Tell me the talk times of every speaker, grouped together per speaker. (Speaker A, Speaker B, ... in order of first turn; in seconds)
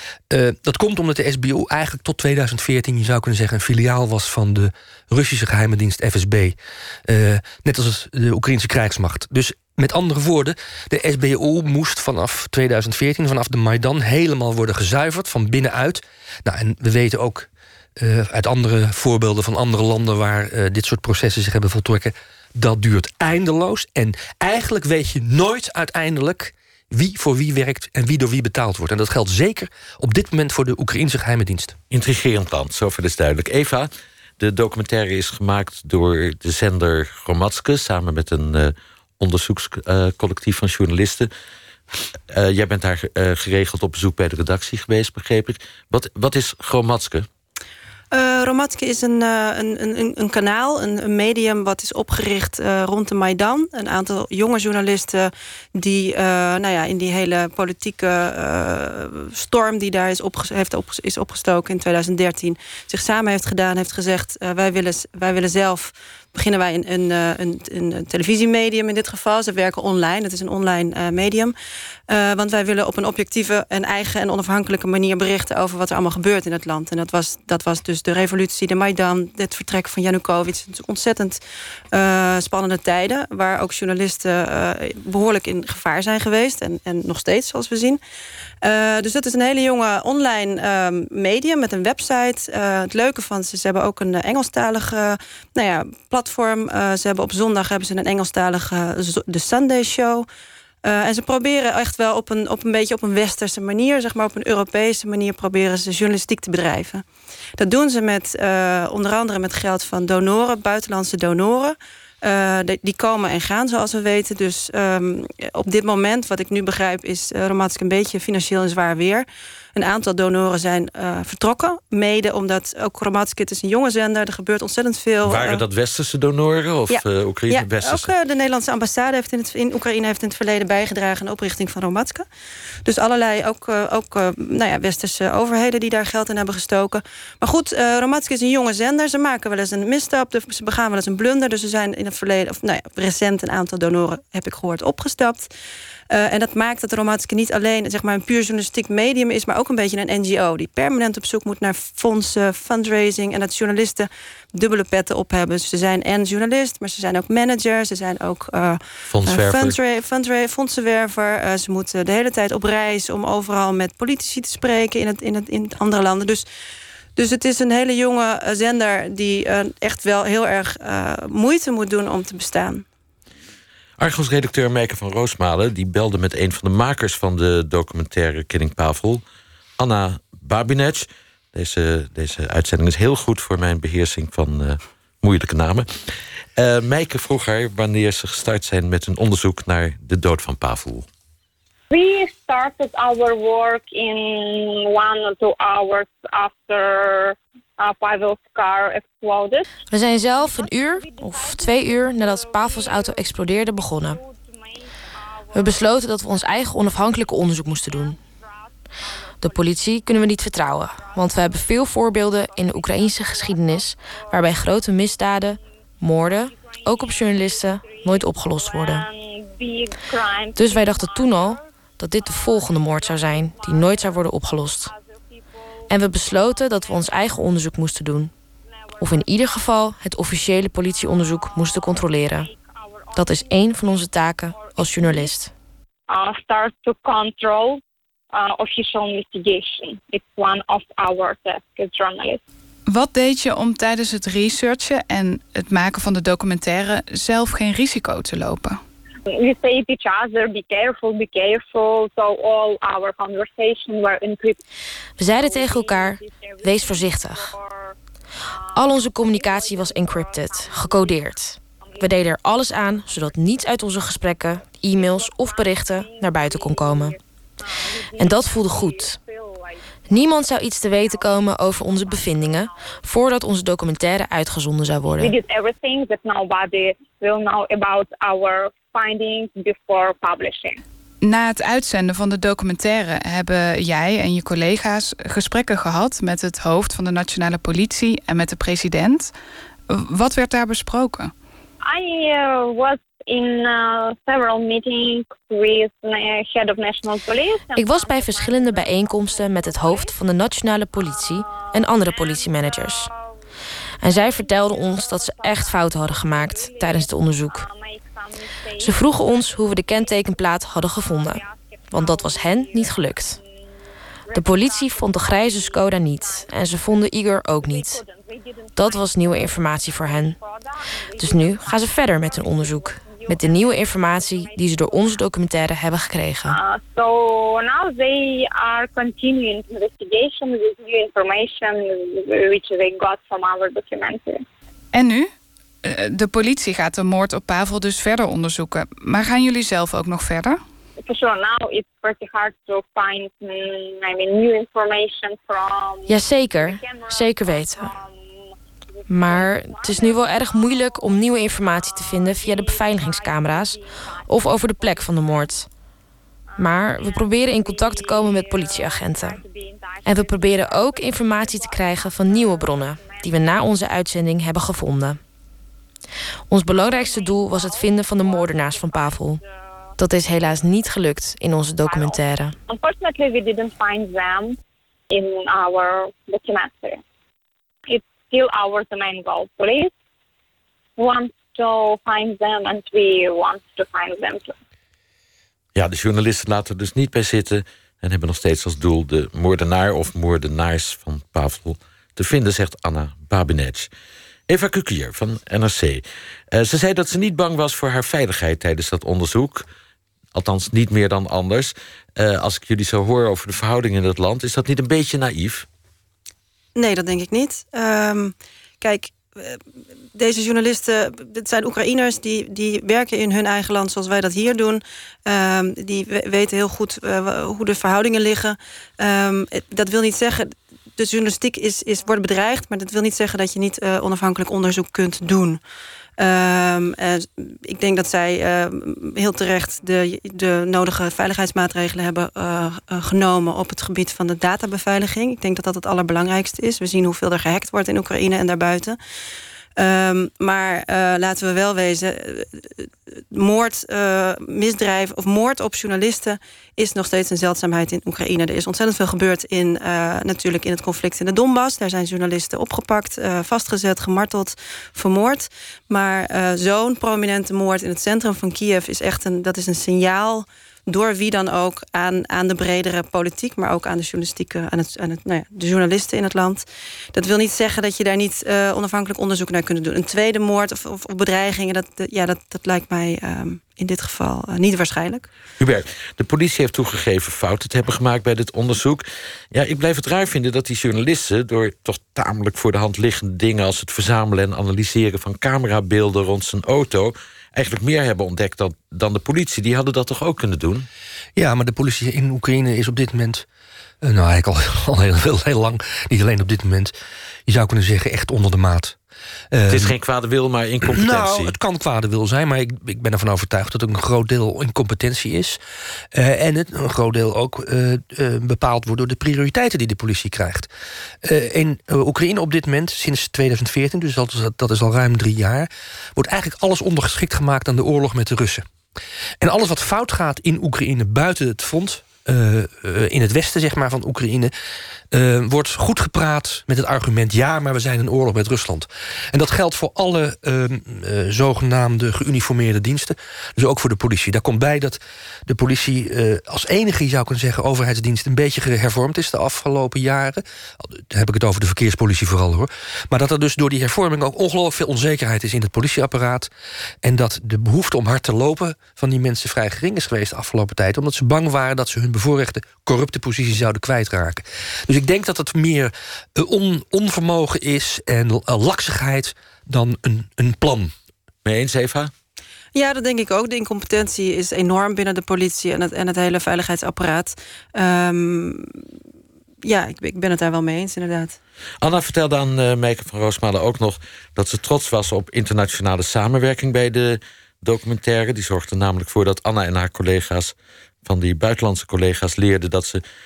Speaker A: 0.3-31.8, 491.4-493.4, 494.0-496.9, 497.5-499.0, 499.5-499.9, 500.9-505.6, 506.1-510.7, 511.2-518.7, 519.4-524.5, 525.1-546.5, 547.0-560.9
Speaker B: 31.9-41.3, 42.3-47.3, 125.2-128.1, 159.1-159.8, 174.0-179.2, 179.8-185.9, 186.6-191.1, 385.8-393.9, 394.5-399.6, 400.4-405.7, 475.6-490.9, 499.7-501.6, 561.5-562.1, 571.8-580.5, 581.0-583.0
Speaker C: 48.1-71.5, 72.1-81.4, 81.9-88.0, 88.6-100.3, 100.8-107.0, 107.6-125.6, 126.9-132.3, 132.9-145.5, 146.1-166.4, 167.2-172.8, 406.8-409.6, 410.1-425.6, 426.2-439.0, 439.8-475.3, 562.8-568.8, 569.6-571.4
Speaker D: 191.9-199.7, 200.3-206.0, 207.7-209.8, 210.9-214.8, 216.2-224.3, 224.8-227.4, 228.9-229.7, 230.8-235.3, 236.1-237.8, 238.3-242.4, 249.4-254.6, 255.3-257.9, 258.8-261.2, 261.8-262.3, 263.0-263.5, 264.6-270.4, 270.9-273.0, 275.2-280.8, 291.8-300.2, 301.0-303.1, 304.0-313.4, 314.3-317.0, 317.6-325.2, 326.5-334.4, 341.0-348.1, 349.1-355.6, 356.5-363.6, 366.7-369.4, 371.8-374.6, 375.1-377.0, 377.9-379.9, 381.0-384.6
Speaker E: 199.9-204.2, 205.5-208.2, 209.4-219.1, 220.6-224.9, 225.9-228.3, 229.0-232.5, 233.2-235.5, 255.2-257.5, 258.8-267.1, 268.2-269.2, 270.1-275.4, 297.8-303.1, 304.0-307.7, 308.8-313.4, 314.3-318.0, 318.8-320.4, 321.2-326.6, 346.1-347.9, 349.1-355.7, 356.6-359.4, 360.1-365.2, 366.5-369.4, 370.0-372.6
Speaker F: 242.9-248.8, 281.2-289.3, 289.9-291.3, 334.9-335.3, 335.8-340.6